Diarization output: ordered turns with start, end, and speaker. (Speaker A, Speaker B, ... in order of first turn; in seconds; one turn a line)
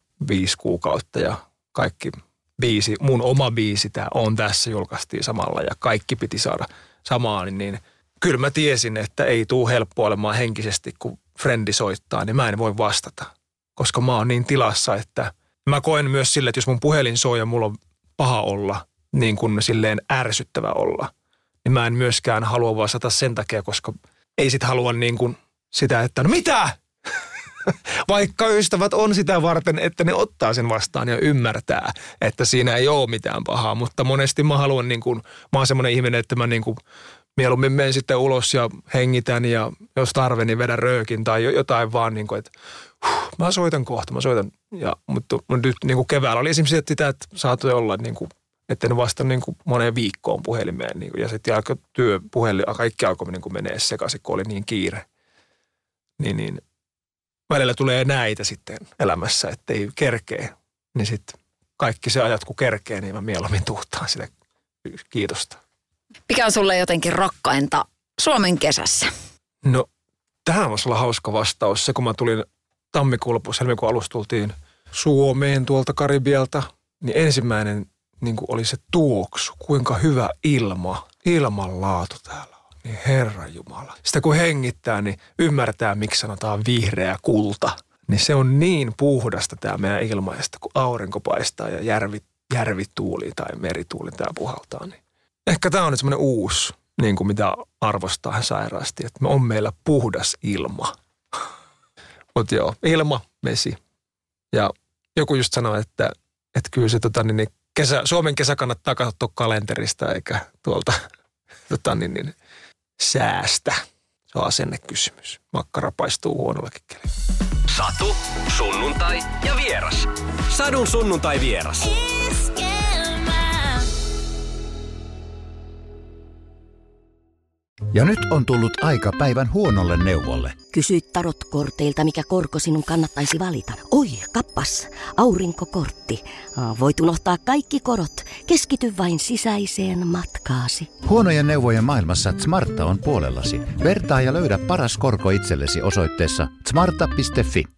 Speaker A: 0.2-21.1
Speaker A: 21.6-26.8
Speaker A: 27.6-36.8
Speaker A: 37.4-42.5
Speaker A: 43.0-55.0
Speaker A: 56.2-56.6
Speaker A: 57.5-64.3
Speaker A: 64.8-65.6
Speaker B: 66.3-69.1
Speaker A: 70.5-101.0
Speaker A: 102.3-103.8
Speaker A: 104.5-111.0
Speaker A: 111.7-112.3
Speaker A: 113.0-117.1
Speaker C: 117.7-123.9
Speaker D: 127.9-130.6
Speaker E: 130.7-140.9
Speaker D: 141.0-147.7